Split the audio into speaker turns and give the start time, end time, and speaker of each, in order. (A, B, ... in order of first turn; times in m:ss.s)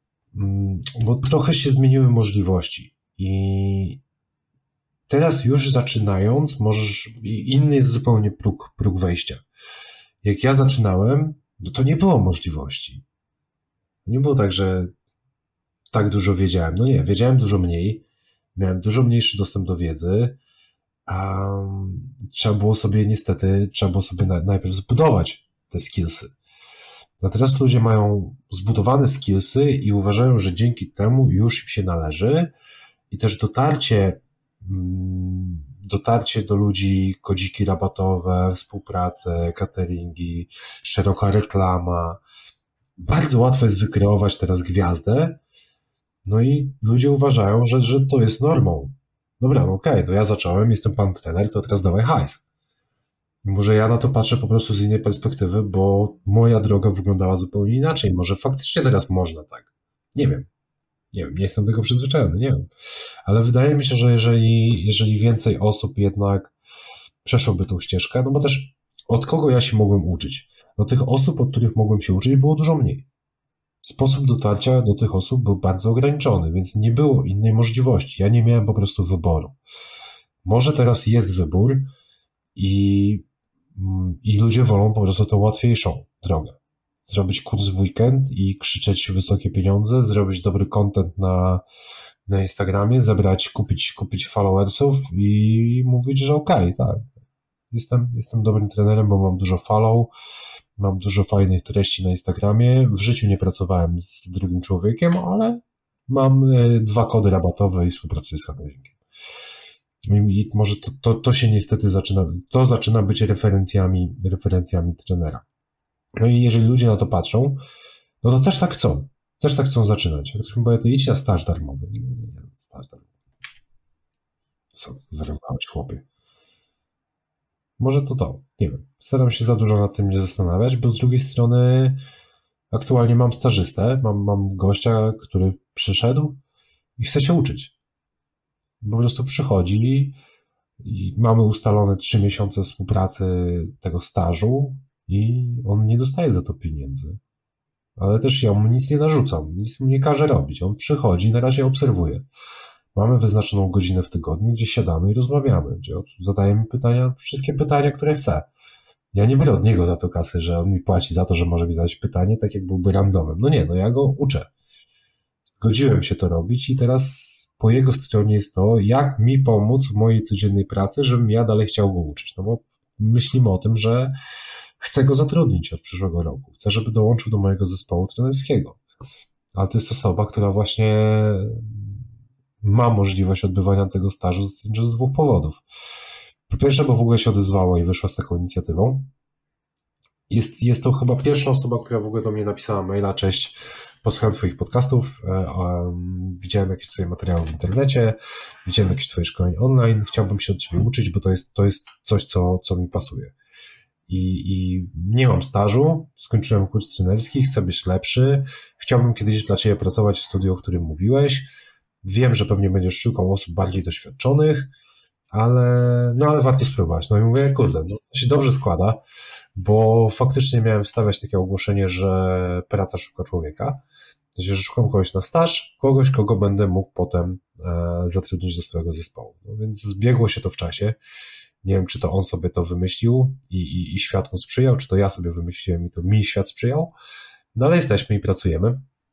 0:00.3-0:04.0 A
0:05.1-0:09.4 A
0:10.2-0:13.0 A
0:14.0-0:14.9 A
0:15.9-0:20.4 A
0:21.1-0:26.3 A
0:27.2-0:32.5 A
0:33.1-0:42.2 A
0:43.0-0:45.4 A
0:46.2-0:52.4 A
0:53.4-1:00.5 A
1:01.1-1:02.7 A
1:03.3-1:06.5 A
1:07.2-1:13.1 A
1:13.8-1:19.6 A
1:20.4-1:21.9 A
1:22.6-1:31.6 A
1:32.3-1:37.1 A
1:37.7-1:40.1 A
1:40.8-1:49.0 A
1:50.1-1:55.4 A
1:56.2-1:57.6 A
1:58.2-2:03.1 A
2:04.7-2:06.0 A
2:07.8-2:12.0 A
2:12.7-2:16.4 A
2:17.0-2:17.7 A
2:18.8-2:20.2 A
2:20.8-2:27.2 A
2:28.0-2:32.3 A
2:32.9-2:38.5 A
2:39.1-2:44.5 A
2:45.4-2:54.1 A
2:54.8-2:58.8 A
2:59.5-3:02.0 A
3:02.6-3:05.6 A
3:06.5-3:09.1 A
3:10.3-3:23.4 A
3:24.1-3:31.5 A
3:32.0-3:34.7 A
3:35.3-3:39.0 A
3:39.6-3:43.8 A
3:44.4-3:51.0 A
3:51.6-3:56.9 A
3:57.5-3:58.9 A